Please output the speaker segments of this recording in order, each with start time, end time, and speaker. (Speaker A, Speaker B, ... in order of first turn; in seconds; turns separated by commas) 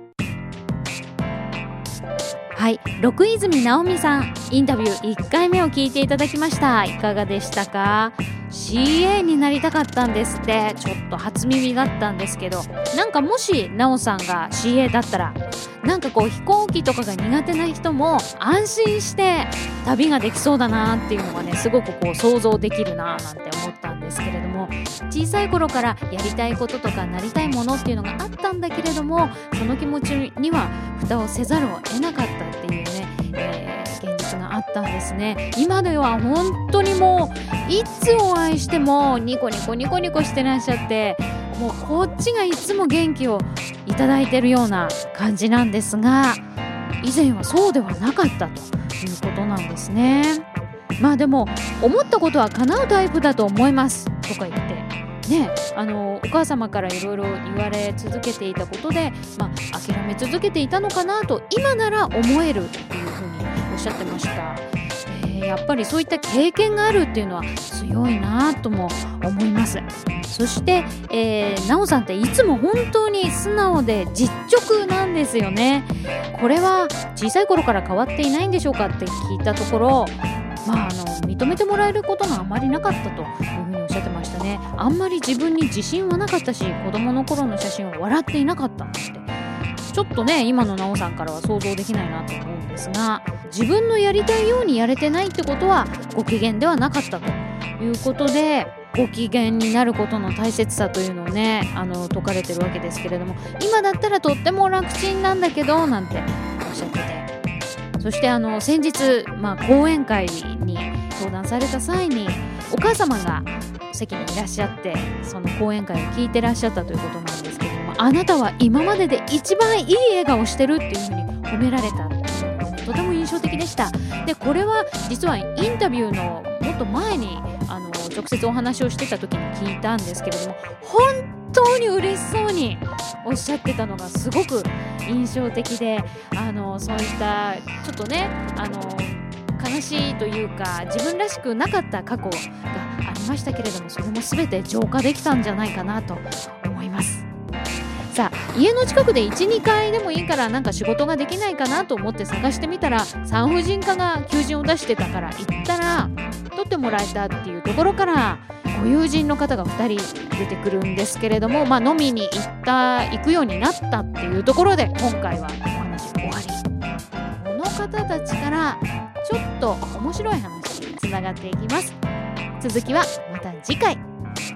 Speaker A: 2.5-46.4, Speaker A: 47.0-50.4, Speaker A: 51.0-89.3, Speaker A: 89.9-107.3, Speaker A: 108.0-147.3, Speaker A: 148.1-166.6, Speaker A: 167.4-172.0, Speaker A: 172.6-174.0